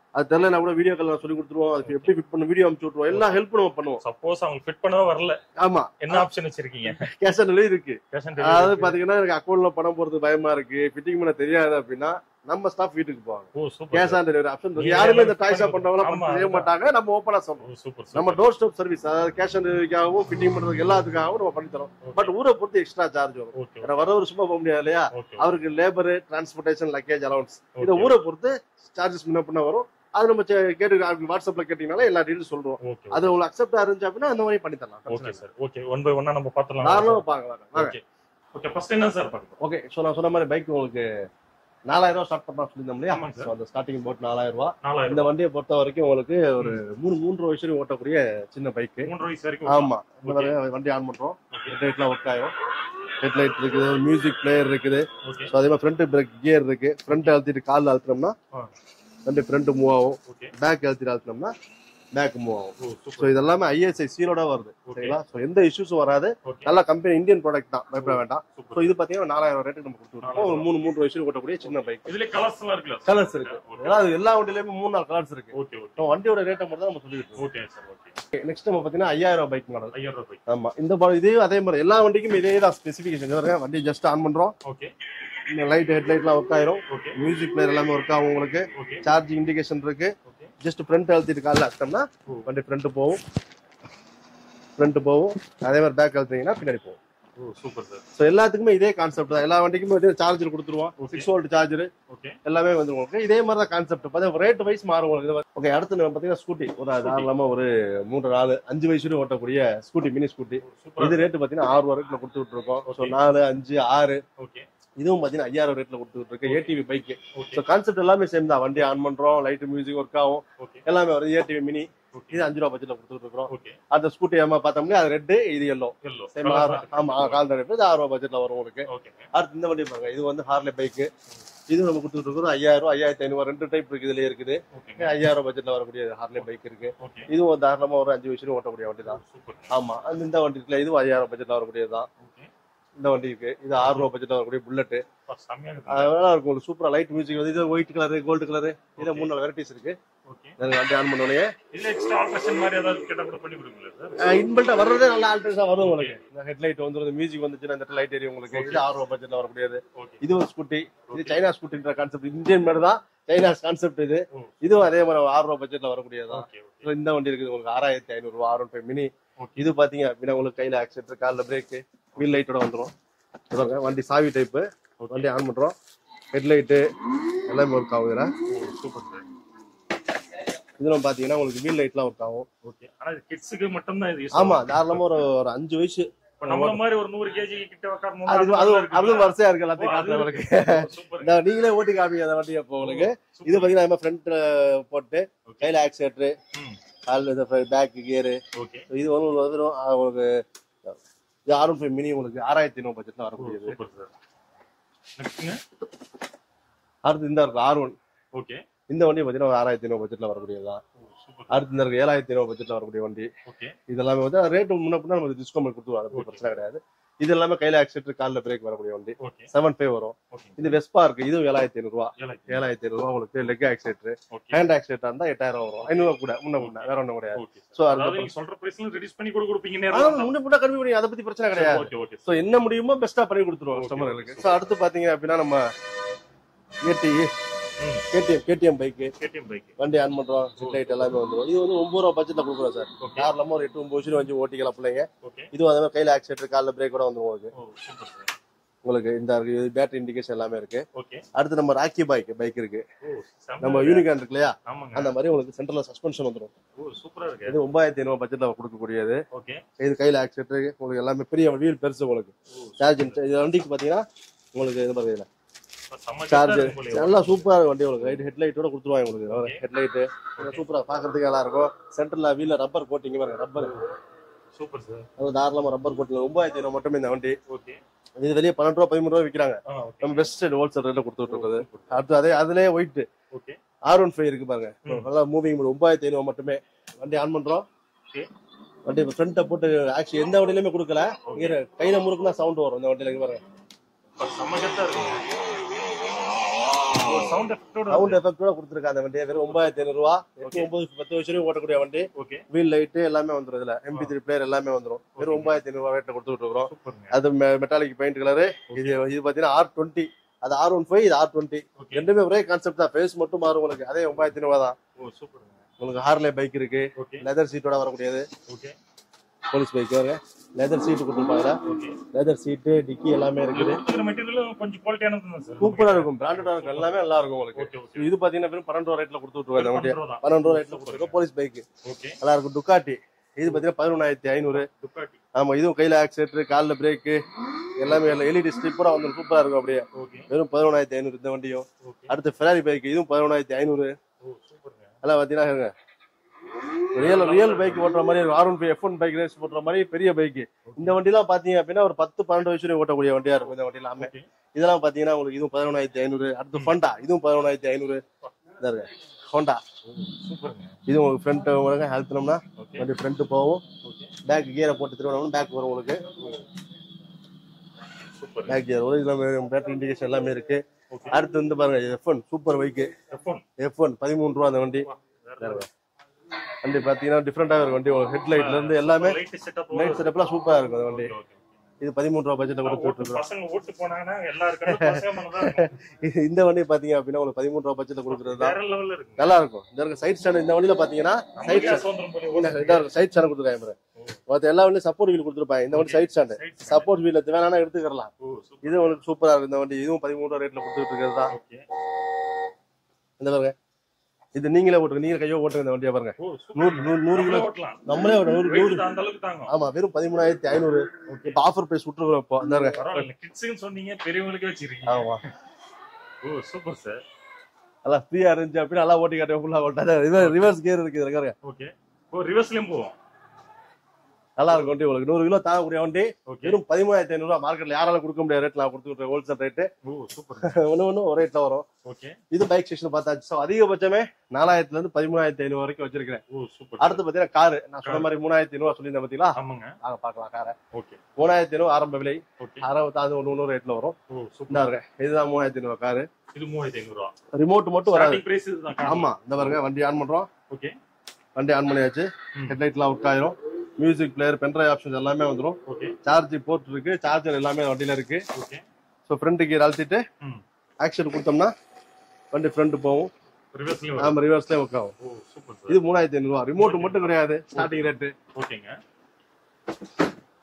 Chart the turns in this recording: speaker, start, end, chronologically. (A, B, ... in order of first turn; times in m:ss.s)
0:00.2-0:04.0 A
0:01.8-0:02.1 B
0:03.1-0:03.4 B
0:04.0-0:05.4 B
0:05.6-0:06.3 A
0:06.0-0:07.1 B
0:06.9-0:35.4 A
0:08.1-0:09.0 B
0:13.6-0:14.2 B
0:14.8-0:16.7 B
0:17.6-0:18.5 B
0:22.0-0:22.3 B
0:23.6-0:24.1 B
0:25.1-0:25.6 B
0:27.8-0:28.2 B
0:32.8-0:33.4 B
0:35.1-0:37.2 B
0:36.8-0:38.0 A
0:37.8-0:38.0 B
0:38.5-0:39.6 B
0:39.6-0:41.0 A
0:41.9-0:49.1 A
0:43.1-0:43.5 B
0:44.8-0:45.4 B
0:49.0-0:50.6 B
0:49.7-0:52.5 A
0:53.2-0:58.4 A
0:55.2-0:55.5 B
0:59.3-1:01.5 A
1:00.2-1:00.5 B
1:02.1-1:12.1 A
1:02.8-1:03.4 B
1:04.9-1:05.2 B
1:06.4-1:06.7 B
1:08.0-1:08.9 B
1:10.2-1:10.7 B
1:12.0-1:14.0 B
1:13.1-1:17.4 A
1:15.5-1:16.1 B
1:17.4-1:18.2 B
1:18.3-1:19.9 A
1:19.9-1:20.4 B
1:20.5-1:24.5 A
1:24.6-1:24.9 B
1:25.5-1:33.2 A
1:26.9-1:27.2 B
1:28.7-1:29.0 B
1:30.3-1:30.5 B
1:34.8-1:37.0 A
1:37.4-1:38.0 B
1:38.2-1:41.9 A
1:41.0-1:41.3 B
1:42.1-1:42.4 B
1:42.4-1:54.2 A
1:47.0-1:47.3 B
1:50.6-1:51.3 B
1:52.9-1:53.2 B
1:54.4-1:54.7 B
1:55.0-2:11.1 A
1:56.5-1:56.7 B
1:57.4-1:57.6 B
2:00.6-2:00.8 B
2:02.1-2:02.4 B
2:03.5-2:03.8 B
2:06.0-2:07.4 B
2:08.9-2:09.3 B
2:11.7-2:19.2 A
2:14.7-2:15.1 B
2:17.0-2:17.3 B
2:19.1-2:19.8 B
2:19.7-2:22.1 A
2:22.2-2:22.5 B
2:23.0-2:25.0 A
2:23.8-2:24.1 B
2:25.3-2:26.2 B
2:25.9-2:30.0 A
2:29.0-2:29.3 B
2:30.3-2:30.6 B
2:30.6-2:31.5 A
2:31.7-2:34.2 B
2:34.2-2:52.9 A
2:35.8-2:36.2 B
2:38.5-2:38.8 B
2:40.0-2:40.2 B
2:41.1-2:41.4 B
2:44.3-2:44.8 B
2:46.3-2:46.9 B
2:49.4-2:49.6 B
2:53.5-2:55.8 A
2:55.0-2:55.3 B
2:56.3-2:56.8 A
2:57.5-2:58.3 A
2:58.5-2:59.3 B
3:00.8-3:02.5 A
3:02.6-3:05.1 B
3:04.3-3:06.8 A
3:06.4-3:11.3 B
3:08.3-3:16.3 A
3:12.8-3:13.8 B
3:15.5-3:15.7 B
3:17.1-3:18.4 A
3:18.6-3:18.9 B
3:18.9-3:20.4 A
3:21.5-3:23.8 A
3:23.4-3:24.1 B
3:25.2-3:25.6 B
3:27.0-3:28.0 A
3:28.3-3:28.6 B
3:28.9-3:30.8 A
3:31.0-3:31.7 B
3:31.5-3:33.3 A
3:33.5-3:33.8 B
3:33.9-3:48.3 A
3:36.1-3:36.6 B
3:39.2-3:39.5 B
3:40.3-3:40.8 B
3:42.2-3:42.6 B
3:44.3-3:44.7 B
3:45.8-3:50.3 B
3:49.9-3:55.6 A
3:51.6-3:52.4 B
3:53.7-3:54.7 B
3:56.8-3:57.3 A
3:57.8-3:58.0 B
3:58.1-3:59.1 A
3:59.2-3:59.8 B
3:59.8-4:07.5 A
4:00.6-4:01.1 B
4:03.0-4:03.3 B
4:05.2-4:05.5 B
4:07.6-4:08.3 B
4:08.8-4:12.8 A
4:11.0-4:11.2 B
4:13.0-4:14.1 B
4:13.6-4:16.5 A
4:14.7-4:15.1 B
4:16.8-4:17.6 B
4:17.5-4:19.2 A
4:19.3-4:19.6 B
4:19.8-4:24.0 A
4:22.5-4:23.2 B
4:24.5-4:25.3 A
4:25.9-4:27.5 B
4:26.3-4:33.8 A
4:29.3-4:29.6 B
4:30.4-4:30.6 B
4:34.5-4:35.1 B
4:35.2-4:37.4 A
4:37.5-4:37.8 B
4:38.2-4:43.1 A
4:39.7-4:40.2 B
4:41.3-4:42.0 B
4:43.3-4:43.6 B
4:43.9-4:47.6 A
4:48.9-4:53.4 A
4:51.3-4:51.6 B
4:54.2-4:55.2 B
4:56.9-4:58.2 B
4:57.9-5:14.8 A
4:59.3-4:59.6 B
5:02.2-5:02.4 B
5:05.2-5:05.6 B
5:06.6-5:07.2 B
5:08.7-5:09.0 B
5:11.8-5:12.1 B
5:15.0-5:15.6 B
5:15.8-5:18.3 A
5:17.0-5:17.2 B
5:18.5-5:18.8 B
5:19.5-5:21.6 A
5:21.6-5:22.0 B
5:22.1-5:23.8 A
5:23.5-5:27.0 B
5:25.6-5:31.6 A
5:27.6-5:28.1 B
5:29.6-5:31.2 B
5:31.8-5:32.2 B
5:32.2-5:34.7 A
5:34.5-5:35.2 B
5:35.4-5:37.2 A
5:37.8-5:43.9 A
5:37.9-5:38.2 B
5:39.9-5:40.3 B
5:41.8-5:42.1 B
5:44.2-5:45.0 B
5:45.0-5:45.7 A
5:47.0-5:58.0 A
5:47.0-5:47.9 B
5:50.7-5:51.0 B
5:54.0-5:54.3 B
5:58.6-5:59.6 A
5:59.8-6:00.8 B
6:00.9-6:03.6 A
6:02.6-6:02.9 B
6:03.8-6:04.1 B
6:04.3-6:06.0 A
6:08.1-6:08.6 B
6:08.5-6:12.9 A
6:10.9-6:11.2 B
6:13.1-6:13.4 B
6:13.6-6:14.9 A
6:14.8-6:15.7 B
6:15.4-6:15.7 A
6:16.6-6:19.2 A
6:18.2-6:20.1 B
6:19.7-6:21.1 A
6:20.8-6:21.6 B
6:21.8-6:23.2 A
6:22.6-6:25.8 B
6:24.6-6:28.6 A
6:28.1-6:29.4 B
6:29.2-6:33.8 A
6:31.4-6:32.9 B
6:34.3-6:38.1 A
6:35.7-6:36.9 B
6:38.2-6:38.9 B
6:38.6-6:41.3 A
6:41.3-6:41.6 B
6:43.2-6:43.6 A
6:44.4-6:48.9 A
6:46.2-6:47.8 B
6:48.4-6:49.5 B
6:49.5-6:53.1 A
6:51.1-6:51.4 B
6:52.7-6:55.1 B
6:54.9-6:55.2 A
6:56.2-6:57.0 B
6:57.8-7:01.4 A
7:00.2-7:00.5 B
7:01.4-7:03.0 B
7:04.4-7:09.7 A
7:04.5-7:04.7 B
7:06.3-7:06.6 B
7:09.8-7:10.6 B
7:10.4-7:11.7 A
7:11.8-7:12.2 B
7:12.3-7:16.2 A
7:16.3-7:17.0 B
7:16.8-7:20.6 A
7:17.8-7:18.1 B
7:19.4-7:19.7 B
7:20.7-7:21.0 B
7:21.2-7:24.0 A
7:22.4-7:22.7 B
7:24.1-7:24.7 B
7:24.5-7:26.1 A
7:26.3-7:27.1 B
7:27.4-7:28.2 A
7:27.9-7:29.1 B
7:28.8-7:30.3 A
7:30.5-7:30.8 B
7:31.4-7:38.2 A
7:35.7-7:36.0 B
7:38.3-7:38.6 B
7:39.1-7:40.0 A
7:40.8-7:41.5 A
7:42.3-7:43.1 A
7:43.5-7:44.2 B
7:44.0-7:44.9 A
7:45.0-7:45.8 B
7:45.7-7:48.1 A
7:46.6-7:48.8 B